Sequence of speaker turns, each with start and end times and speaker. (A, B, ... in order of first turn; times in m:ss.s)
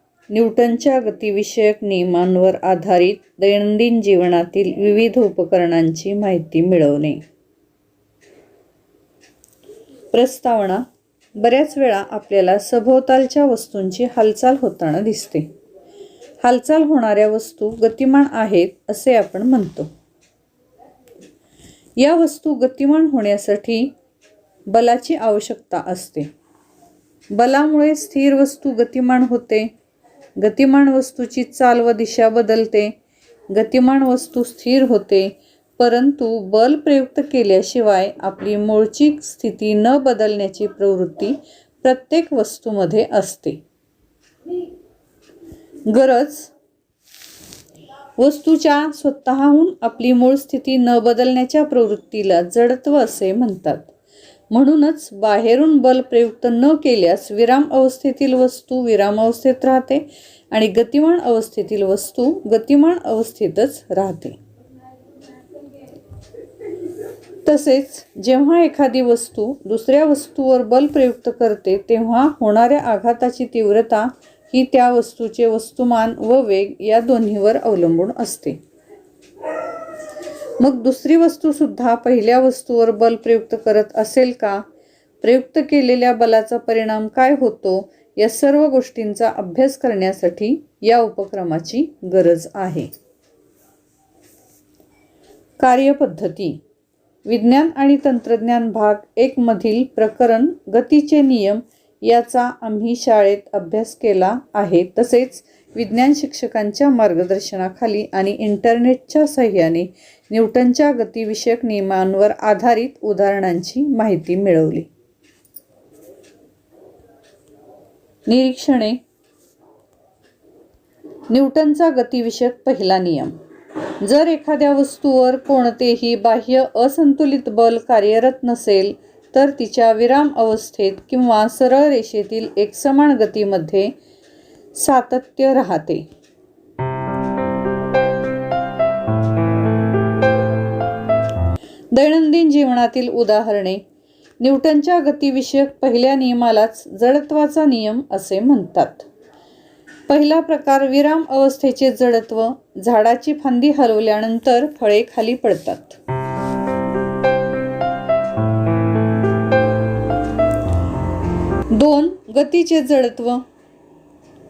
0:00.3-0:07.2 A
0:10.1-0:15.5 A
0:16.4-0:19.9 A
0:22.0-0:23.9 A
0:24.7-0:26.3 A
0:27.3-0:29.7 A
0:30.4-0:32.9 A
0:33.5-0:43.6 A
0:45.9-0:46.5 A
0:48.2-0:53.9 A
0:54.5-1:04.4 A
1:07.4-1:18.6 A
1:20.6-1:24.6 A
1:25.2-1:32.9 A
1:35.6-1:36.6 A
1:37.3-1:54.9 A
1:58.3-1:59.0 A
2:01.3-2:03.3 A
2:04.0-2:13.9 A
2:14.7-2:16.0 A
2:21.9-2:23.8 A
2:24.4-2:29.1 A
2:30.1-2:36.0 A
2:41.7-2:43.4 A